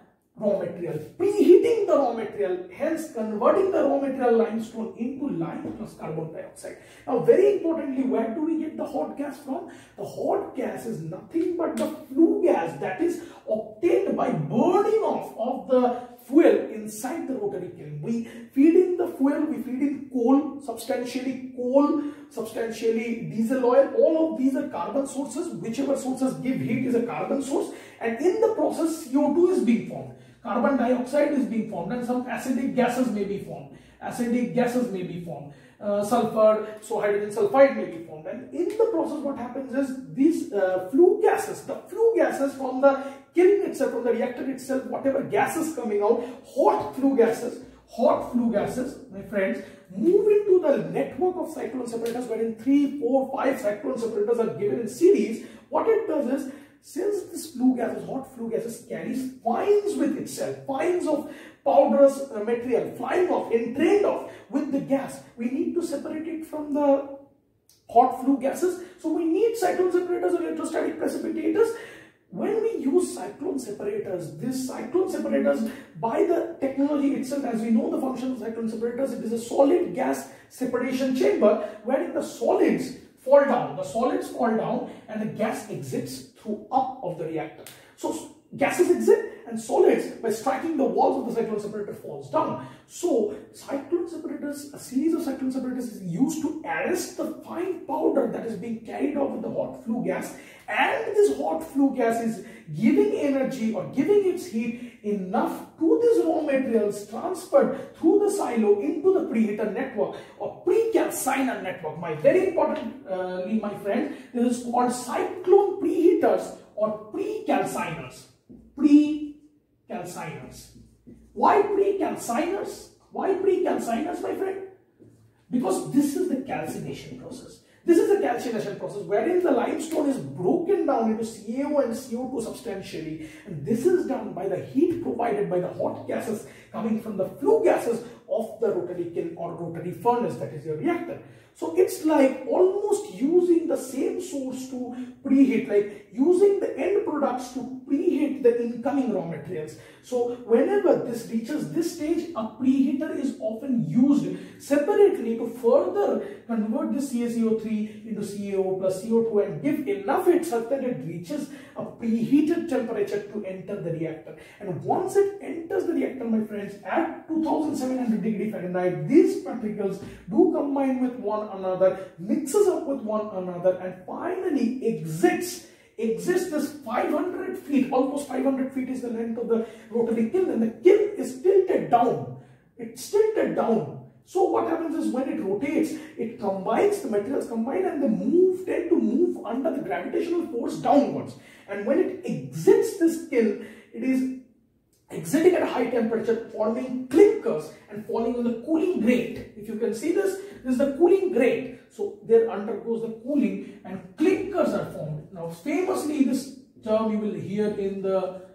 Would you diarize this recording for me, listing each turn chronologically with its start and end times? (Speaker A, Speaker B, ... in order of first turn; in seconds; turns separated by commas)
Speaker A: 0.4-67.1, Speaker A: 67.9-71.7, Speaker A: 72.3-119.4, Speaker A: 119.9-120.7, Speaker A: 121.3-124.6, Speaker A: 125.5-194.3, Speaker A: 195.1-208.3